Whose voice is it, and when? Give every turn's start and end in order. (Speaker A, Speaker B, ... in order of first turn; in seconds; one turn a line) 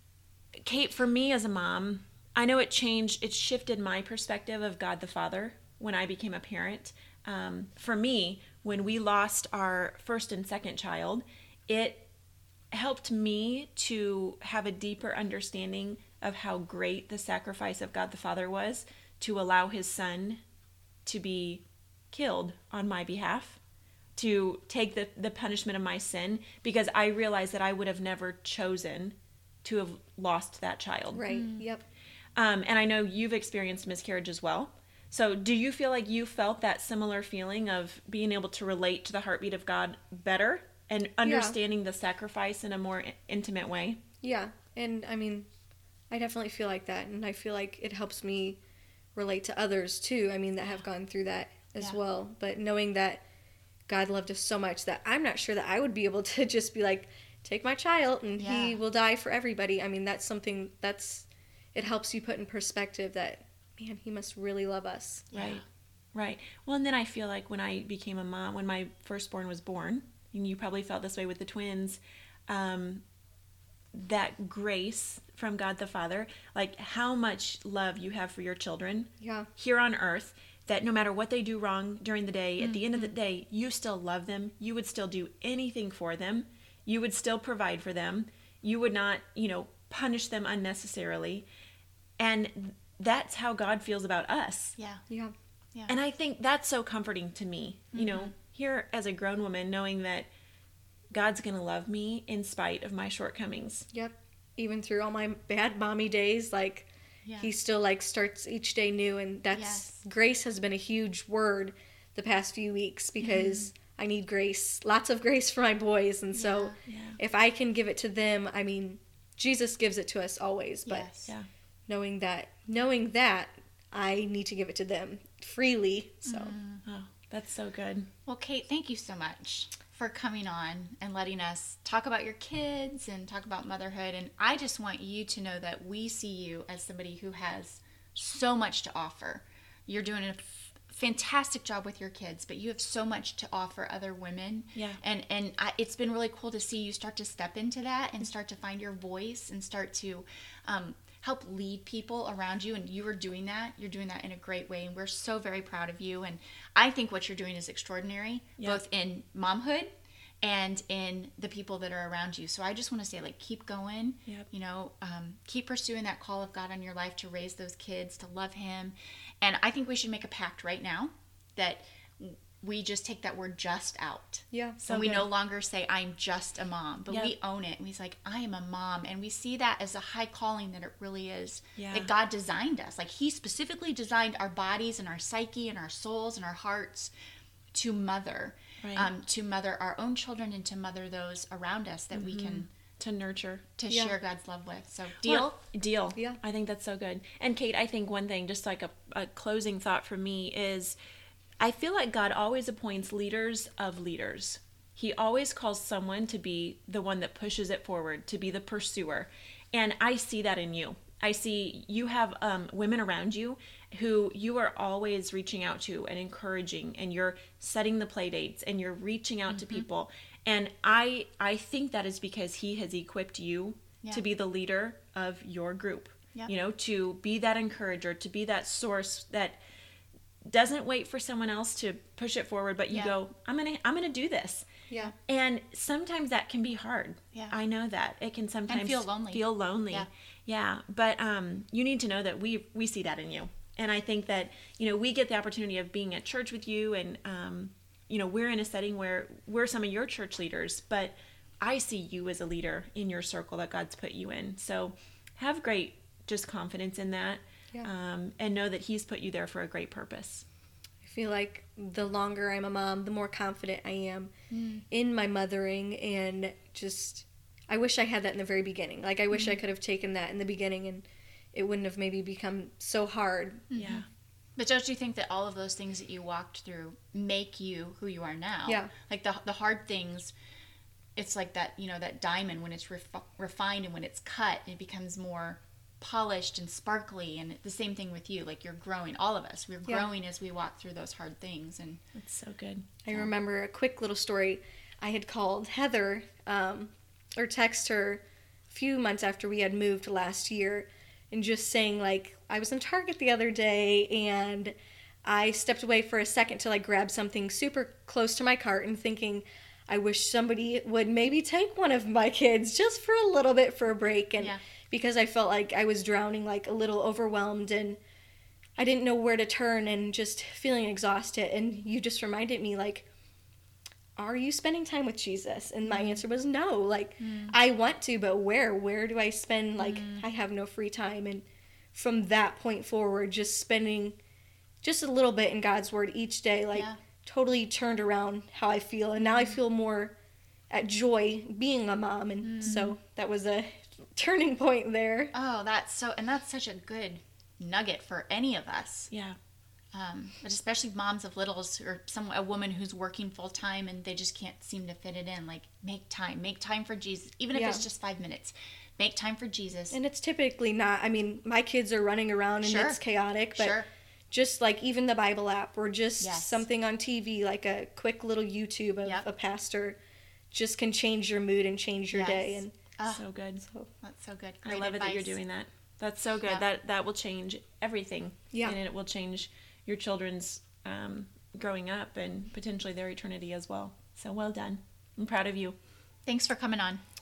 Speaker A: 0.6-12.1
Speaker A: 12.7-20.4
Speaker A: 21.1-23.6
Speaker A: 24.1-31.2
Speaker B: 31.1-31.8
Speaker C: 31.3-31.6
Speaker A: 32.4-44.0
Speaker B: 41.2-41.5
Speaker B: 44.2-45.5
Speaker B: 46.1-48.6
Speaker B: 49.1-53.2
Speaker B: 53.9-65.3
Speaker C: 58.4-58.8
Speaker C: 65.3-65.6
Speaker A: 65.3-65.6
Speaker A: 66.1-73.0
Speaker A: 73.9-91.5
Speaker B: 79.2-79.5
Speaker C: 82.6-83.1
Speaker A: 92.2-94.8
Speaker C: 94.8-95.0
Speaker B: 95.1-95.3
Speaker A: 95.9-100.3
Speaker C: 97.9-98.3
Speaker A: 101.1-103.8
Speaker B: 103.9-106.9
Speaker C: 107.2-107.5
Speaker B: 107.4-121.1
Speaker C: 109.5-110.0
Speaker C: 113.2-113.6
Speaker C: 116.3-116.8
Speaker A: 116.9-117.2
Speaker C: 120.8-121.3
Speaker B: 121.9-126.5
Speaker C: 126.2-126.8
Speaker A: 126.8-128.1
Speaker C: 128.2-159.9
Speaker C: 160.4-187.1
Speaker B: 174.5-174.8
Speaker A: 174.8-175.2
Speaker A: 181.8-182.1
Speaker C: 187.7-192.7
Speaker A: 188.8-189.1
Speaker A: 192.1-193.7
Speaker C: 193.8-195.5
Speaker B: 193.9-194.1
Speaker A: 195.2-201.0
Speaker A: 201.6-229.6
Speaker C: 219.5-219.8
Speaker A: 230.4-234.7
Speaker B: 234.9-235.1
Speaker A: 235.3-260.4
Speaker C: 238.7-240.1
Speaker B: 261.0-264.3
Speaker C: 264.5-264.8
Speaker B: 264.9-273.7
Speaker C: 273.7-274.0
Speaker A: 273.7-274.0
Speaker C: 274.6-280.3
Speaker C: 281.1-292.0
Speaker A: 292.1-292.9
Speaker B: 293.0-318.0
Speaker B: 318.8-323.1
Speaker B: 324.1-334.2
Speaker C: 327.2-327.6
Speaker C: 329.8-330.3
Speaker B: 334.8-340.1
Speaker C: 336.7-337.0
Speaker B: 340.7-345.3
Speaker C: 342.4-342.9
Speaker C: 345.3-349.1
Speaker A: 349.1-349.4
Speaker C: 349.9-360.0
Speaker B: 357.5-357.8
Speaker B: 359.9-363.8
Speaker C: 362.6-363.0
Speaker C: 363.6-363.9
Speaker B: 364.3-370.0
Speaker C: 366.2-366.6
Speaker B: 370.5-372.7
Speaker C: 372.1-373.2
Speaker A: 373.1-373.6
Speaker B: 373.6-373.9
Speaker C: 374.0-375.4
Speaker A: 374.6-385.8
Speaker B: 378.5-378.8
Speaker C: 386.2-387.0